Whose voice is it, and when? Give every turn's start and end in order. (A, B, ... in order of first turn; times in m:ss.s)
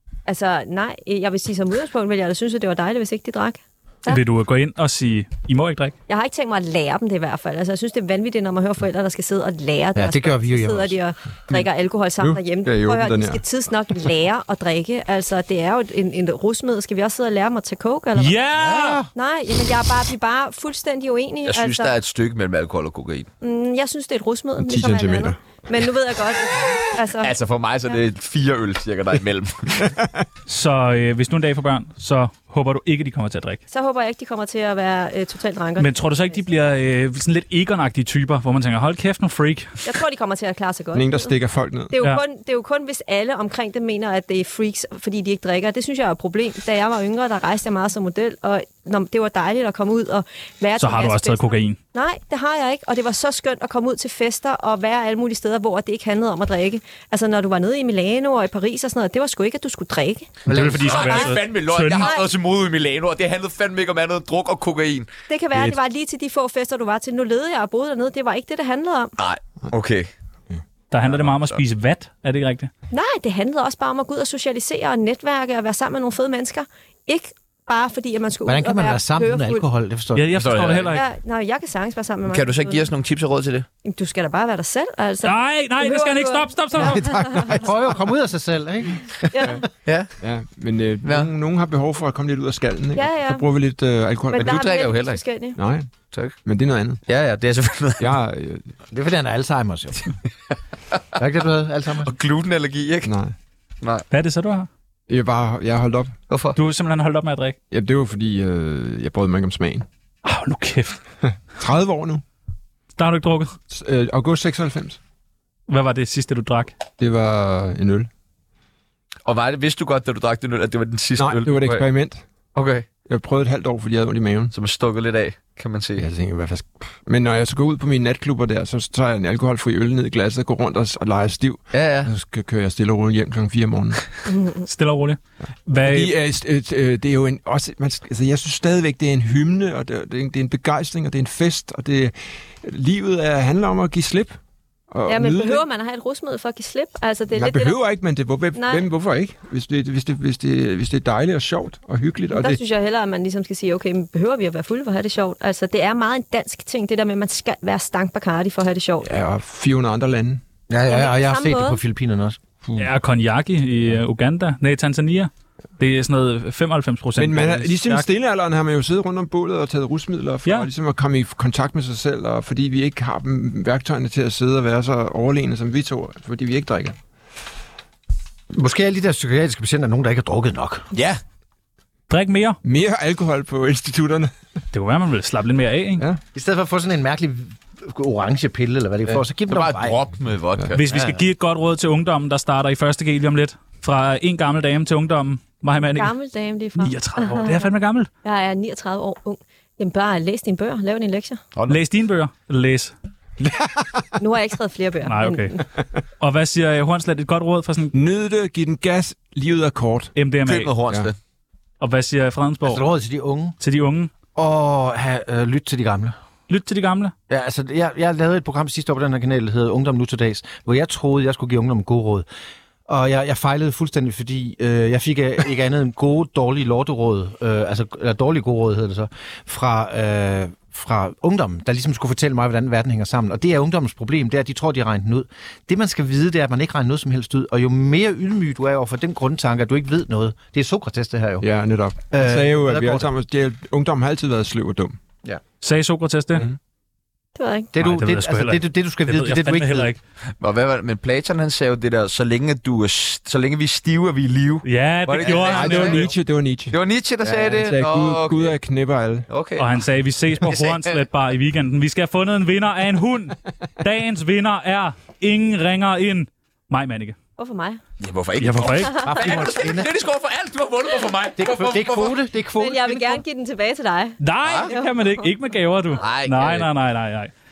0:00.3-0:04.2 A
0:04.1-0:05.9 B
0:06.1-0:18.4 A
0:09.9-0:11.0 C
0:12.2-0:13.4 D
0:18.2-0:19.0 B
0:18.6-0:19.1 C
0:19.1-0:21.9 A
0:21.4-0:23.3 E
0:23.4-0:27.3 A
0:24.6-0:25.7 D
0:27.2-0:29.8 E
0:29.8-0:30.2 D
0:30.5-0:33.6 B
0:33.7-0:36.4 A
0:35.8-0:39.8 B
0:39.8-0:41.3 A
0:40.9-0:41.9 D
0:41.9-1:01.4 A
0:50.8-0:51.8 B
1:00.4-1:05.7 E
1:00.5-1:02.1 B
1:02.0-1:02.2 A
1:05.3-1:09.1 A
1:09.2-1:10.1 E
1:10.9-1:12.7 B
1:11.0-1:11.6 E
1:12.9-1:19.6 A
1:18.4-1:20.3 C
1:20.1-1:21.0 B
1:20.3-1:21.0 E
1:20.9-1:22.9 A
1:22.3-1:23.7 E
1:23.8-1:27.5 A
1:25.2-1:27.6 B
1:26.8-1:27.7 D
1:27.5-1:29.6 C
1:29.3-1:29.6 A
1:29.8-1:30.1 E
1:30.2-1:34.6 D
1:31.0-1:31.3 E
1:32.9-1:33.5 A
1:34.3-1:35.6 A
1:34.4-1:35.2 E
1:35.6-1:35.9 D
1:36.4-1:37.0 D
1:37.0-1:38.1 E
1:38.0-1:38.7 D
1:38.9-1:40.1 C
1:41.2-1:42.1 C
1:42.0-1:43.1 E
1:43.0-1:43.3 D
1:43.8-1:44.0 E
1:44.1-1:44.7 B
1:45.1-1:46.1 D
1:46.3-1:46.6 E
1:46.5-1:47.6 B
1:47.7-1:49.9 D
1:50.2-1:51.0 B
1:51.2-1:52.2 D
1:53.0-1:53.5 B
1:53.7-1:55.0 D
1:55.7-1:56.7 B
1:57.0-1:58.1 D
1:59.2-2:01.8 E
2:01.2-2:02.2 D
2:02.5-2:02.8 E
2:03.0-2:04.5 D
2:04.5-2:06.0 E
2:06.0-2:14.0 D
2:11.7-2:12.1 E
2:14.3-2:14.6 A
2:14.6-2:16.1 B
2:15.8-2:24.4 D
2:24.9-2:25.6 D
2:25.0-2:27.8 A
2:27.3-2:32.6 D
2:28.5-2:28.8 A
2:32.3-2:39.1 A
2:39.0-2:40.4 D
2:40.7-2:42.4 C
2:40.9-2:41.8 A
2:42.6-2:42.9 D
2:42.8-2:47.7 B
2:47.2-2:57.0 D
2:58.5-3:00.8 C
3:00.9-3:01.2 E
3:02.1-3:02.6 B
3:02.6-3:04.3 D
3:04.7-3:06.0 B
3:06.3-3:10.0 C
3:09.4-3:10.8 E
3:10.7-3:16.1 B
3:10.9-3:11.2 C
3:15.9-3:17.7 A
3:16.8-3:18.1 B
3:18.2-3:21.4 A
3:21.5-3:21.8 E
3:21.7-3:22.9 B
3:23.4-3:24.1 D
3:24.2-3:25.6 A
3:25.0-3:25.6 B
3:26.2-3:27.9 B
3:27.9-3:30.1 D
3:30.2-3:30.7 B
3:30.4-3:31.2 E
3:31.8-3:32.9 B
3:32.6-3:33.5 C
3:33.6-3:34.1 B
3:34.4-3:36.1 C
3:36.5-3:37.1 B
3:37.3-3:42.2 C
3:42.9-4:01.5 C
4:01.4-4:05.0 D
4:02.1-4:03.1 C
4:05.6-4:06.4 B
4:07.4-4:07.7 A
4:07.7-4:09.9 C
4:07.8-4:10.0 B
4:10.4-4:16.2 E
4:14.6-4:16.1 B
4:15.2-4:19.3 D
4:16.7-4:18.5 E
4:19.3-4:19.7 E
4:19.6-4:27.2 B
4:20.4-4:21.0 E
4:27.4-4:27.8 A
4:28.0-4:32.2 E
4:28.4-4:29.5 B
4:28.9-4:29.9 C
4:31.4-4:33.2 C
4:32.6-4:35.2 A
4:34.2-4:37.3 B
4:34.4-4:34.7 E
4:35.9-4:36.7 E